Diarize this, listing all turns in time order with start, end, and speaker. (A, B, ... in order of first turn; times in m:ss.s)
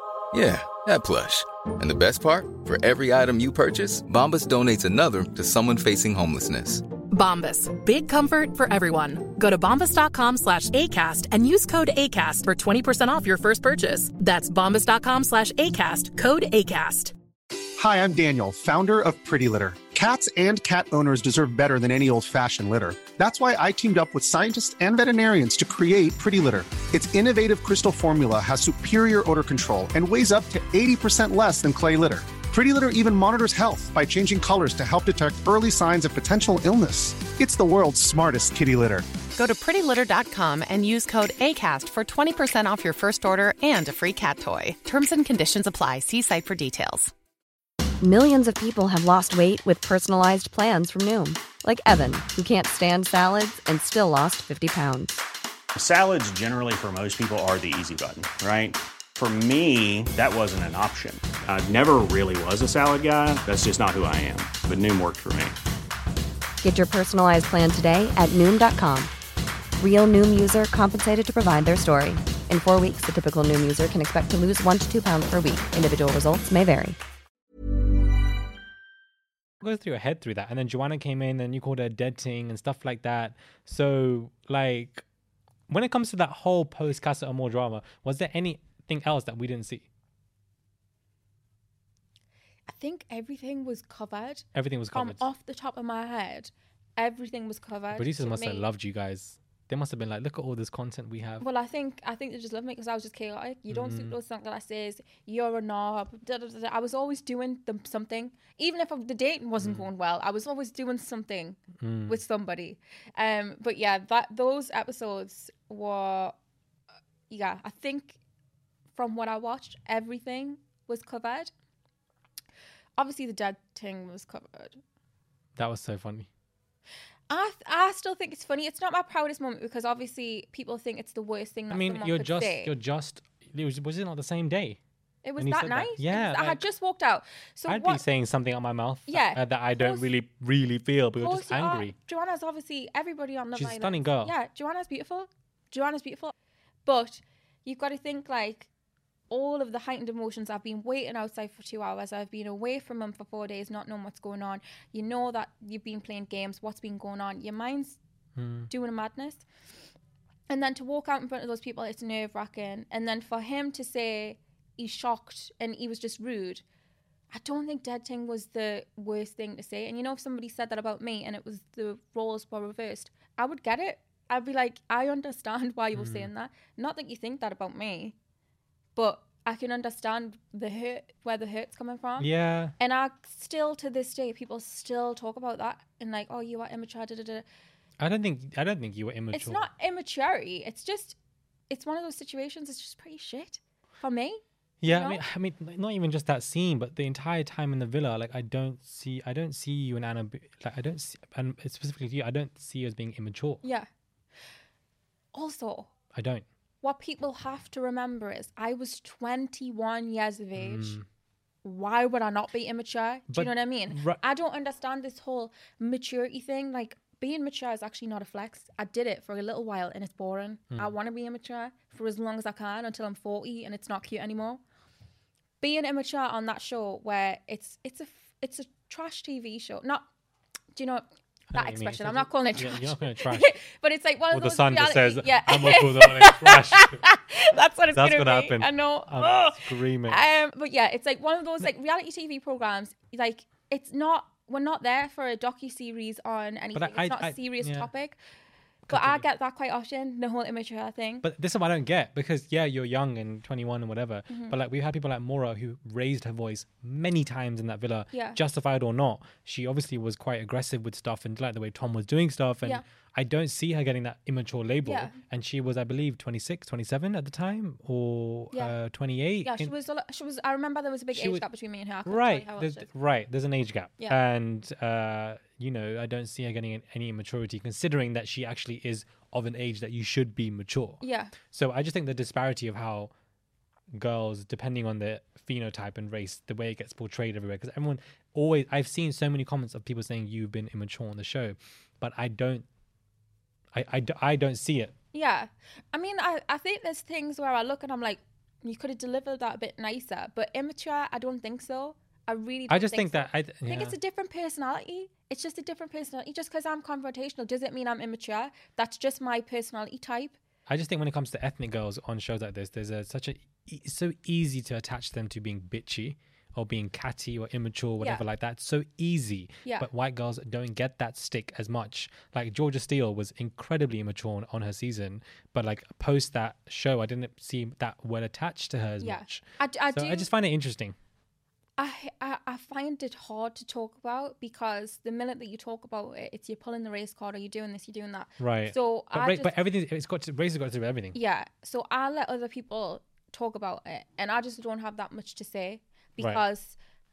0:00.3-0:06.8 A
0:07.1-0:17.1 B
0:17.8-0:39.1 C
0:39.4-0:47.1 D
0:48.0-0:55.2 E
0:55.8-1:05.6 F
1:06.6-1:09.1 E
1:09.8-1:17.0 E
1:19.6-1:25.0 G
1:25.7-1:29.8 G
1:32.7-1:38.6 H
1:34.5-1:35.2 G
1:37.9-1:41.4 G
1:41.4-1:56.4 H
1:43.7-1:44.2 G
1:49.6-1:49.9 G
1:51.8-1:52.2 G
1:57.3-1:58.2 H
1:58.9-2:01.5 H
2:03.0-2:04.8 H
2:05.6-2:06.3 G
2:07.3-2:12.7 H
2:11.7-2:14.8 G
2:15.2-2:18.0 H
2:15.4-2:16.6 G
2:17.7-2:21.9 G
2:19.1-2:20.1 H
2:21.2-2:26.3 H
2:23.5-2:24.3 G
2:26.8-2:28.7 H
2:29.3-2:38.0 H
2:38.4-2:38.7 G
2:38.7-2:39.4 H
2:40.5-2:46.6 H
2:47.3-2:58.1 H
2:55.9-2:56.3 G
2:59.0-3:02.3 H
3:02.2-3:02.7 G
3:02.8-3:07.4 H
3:08.0-3:09.6 G
3:09.3-3:11.2 H
3:11.7-3:15.2 H
3:14.8-3:23.6 G
3:23.6-3:23.9 H
3:25.3-3:25.9 H
3:26.1-3:26.4 G
3:26.8-3:31.0 H
3:30.6-3:31.0 G
3:31.6-3:44.6 H
3:33.3-3:34.2 G
3:45.6-3:50.1 H
3:50.7-4:08.2 H
3:51.5-3:53.5 G
3:54.3-3:57.0 G
3:57.9-4:00.2 G
4:06.7-4:07.9 G
4:08.9-4:09.2 G
4:08.9-4:11.2 H
4:11.2-4:29.7 G
4:14.3-4:14.5 H
4:18.1-4:18.4 H
4:24.8-4:25.1 H
4:29.4-4:32.8 H
4:31.1-4:31.4 G
4:32.0-4:43.1 G
4:41.0-4:41.3 H
4:43.9-4:52.6 G
4:53.7-4:54.9 G
4:55.1-5:10.4 H
5:02.7-5:03.9 G
5:10.7-5:31.0 G
5:29.0-5:30.3 H
5:31.8-5:39.5 H
5:38.4-5:41.2 G
5:41.1-5:46.8 H
5:46.2-5:46.4 G